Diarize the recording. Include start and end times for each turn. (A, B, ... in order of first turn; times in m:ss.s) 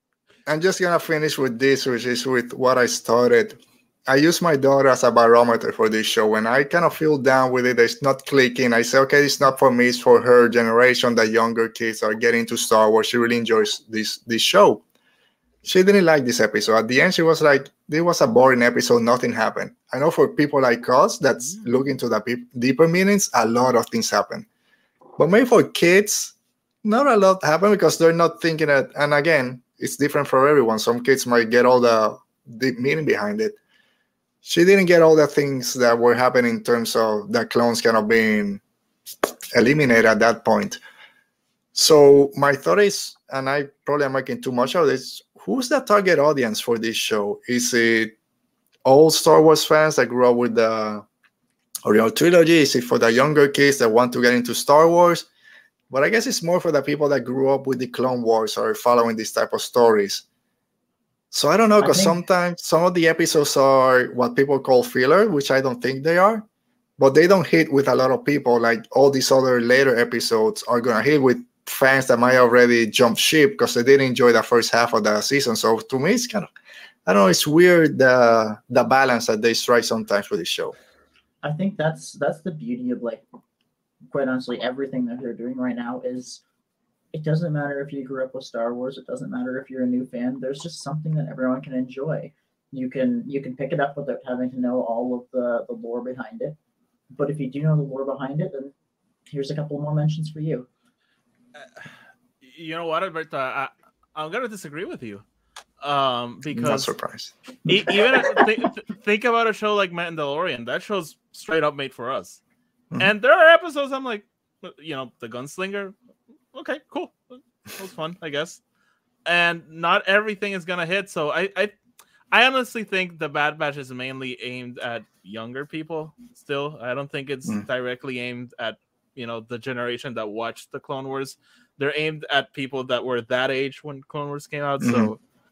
0:00.5-0:14.8 A
0:15.6-0:24.5 A
0:25.2-0:33.6 A
0:34.4-0:38.6 A
0:39.5-0:40.8 A
0:41.7-0:48.1 A
0:48.8-0:51.0 A
0:51.9-0:55.3 A
0:55.9-1:00.2 A
1:01.3-1:06.4 A
1:01.8-1:02.2 B
1:07.0-1:16.5 A
1:17.0-1:20.7 A
1:21.4-1:23.2 B
1:24.1-1:26.4 B
1:27.1-1:36.6 B
1:37.1-1:38.7 B
1:39.3-1:40.7 B
1:41.6-1:41.9 C
1:42.4-1:45.2 C
1:45.8-1:47.0 C
1:46.5-1:47.3 A
1:47.7-1:52.4 C
1:53.0-1:56.0 C
1:56.5-1:58.6 C
1:59.3-2:01.7 C
2:02.3-2:15.2 C
2:14.8-2:15.1 A